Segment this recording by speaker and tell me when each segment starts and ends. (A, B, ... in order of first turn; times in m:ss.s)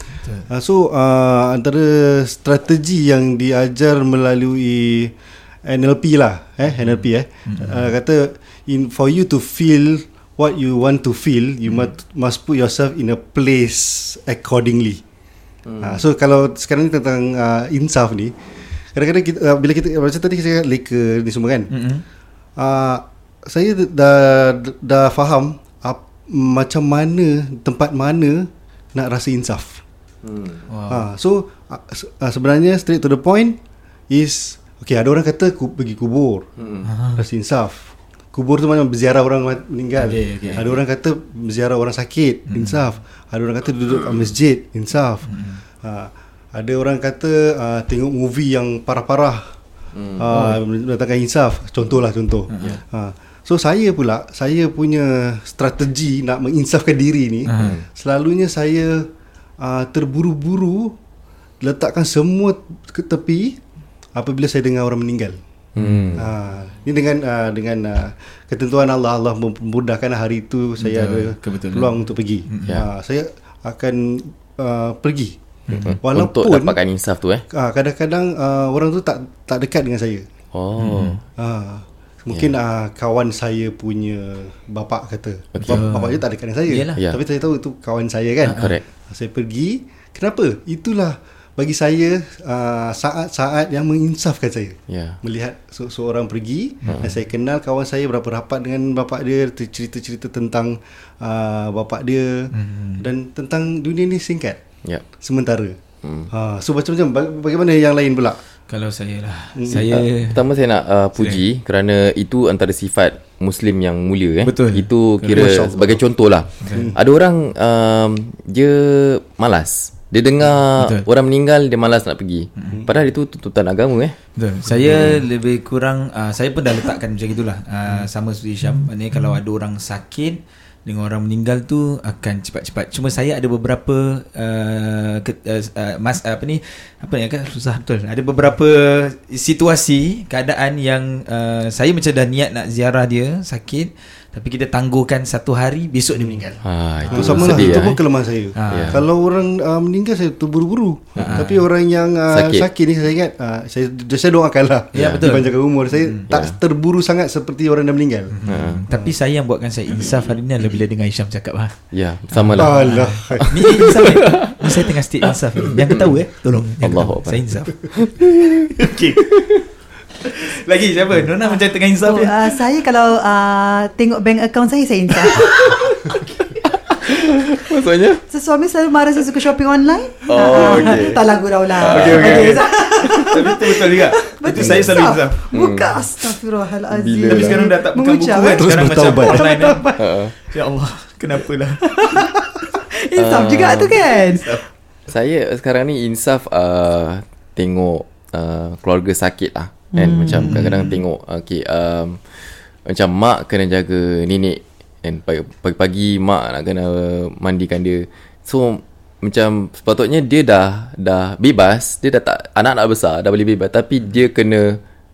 0:00.5-0:05.1 A
0:05.6-0:15.0 A
0:07.5-0:07.9 B
0:15.8-0:18.4 A
0:18.9-0:21.7 A
0:21.7-0:22.0 B
0:22.6-0:29.8 A
0:30.3-0:30.6 C
0:30.7-0:31.1 B
0:30.9-0:33.6 A
0:34.1-0:36.5 A
0:36.6-0:36.8 C
0:36.8-0:37.2 B
0:37.2-0:45.3 A
0:40.0-0:40.8 B
0:42.5-0:42.8 B
0:45.3-0:45.6 B
0:45.8-0:49.6 A
0:50.0-0:50.2 C
0:50.2-0:59.1 A
0:50.3-0:50.6 B
0:52.5-0:52.8 B
0:57.5-0:57.8 B
0:59.6-1:01.0 A
1:01.6-1:03.6 A
1:04.2-1:05.4 A
1:05.8-1:06.3 B
1:05.8-1:06.3 C
1:06.2-1:15.4 A
1:10.8-1:12.8 B
1:15.7-1:16.0 B
1:15.8-1:17.4 C
1:16.0-1:16.8 A
1:17.5-1:20.2 A
1:20.5-1:21.2 C
1:20.8-1:21.2 B
1:21.4-1:44.6 A
1:25.5-1:25.8 C
1:25.7-1:27.0 B
1:28.4-1:28.8 B
1:28.6-1:28.8 C
1:34.9-1:35.2 C
1:42.5-1:43.1 B
1:45.2-1:45.8 A
1:46.0-1:46.3 C
1:46.3-1:48.4 A
1:48.7-1:50.4 B
1:49.6-1:49.8 A
1:49.7-2:04.2 C
1:51.2-1:51.4 B
1:54.4-1:55.5 B
1:55.3-1:56.0 A
1:56.6-1:56.9 B
2:00.8-2:01.0 B
2:02.6-2:02.8 B
2:04.4-2:28.0 B
2:04.9-2:05.2 C
2:26.6-2:27.9 C
2:27.1-2:38.4 A
2:28.5-2:29.0 B
2:28.7-2:29.0 C
2:31.2-2:31.4 C
2:31.2-2:31.7 B
2:32.3-2:32.7 C
2:35.0-2:35.3 C
2:35.0-2:36.3 B
2:36.3-2:36.6 C
2:38.3-2:41.7 B
2:38.5-2:38.8 C
2:38.9-2:39.2 A
2:41.9-2:44.2 C
2:42.3-2:48.2 B
2:42.6-2:43.9 A
2:45.8-2:46.1 C
2:46.8-2:49.6 C
2:48.8-2:49.3 B
2:50.2-2:52.4 B
2:51.4-2:56.2 D
2:56.9-2:58.2 C
2:58.3-3:10.1 D
3:00.3-3:01.2 C
3:01.8-3:02.5 C
3:01.8-3:05.5 B
3:05.5-3:06.0 C
3:06.9-3:07.6 C
3:07.3-3:11.9 B
3:08.5-3:09.5 A
3:10.0-3:10.3 C
3:11.8-3:14.6 D
3:13.2-3:14.2 C
3:15.1-3:34.8 C
3:19.9-3:20.6 D
3:20.4-3:21.0 B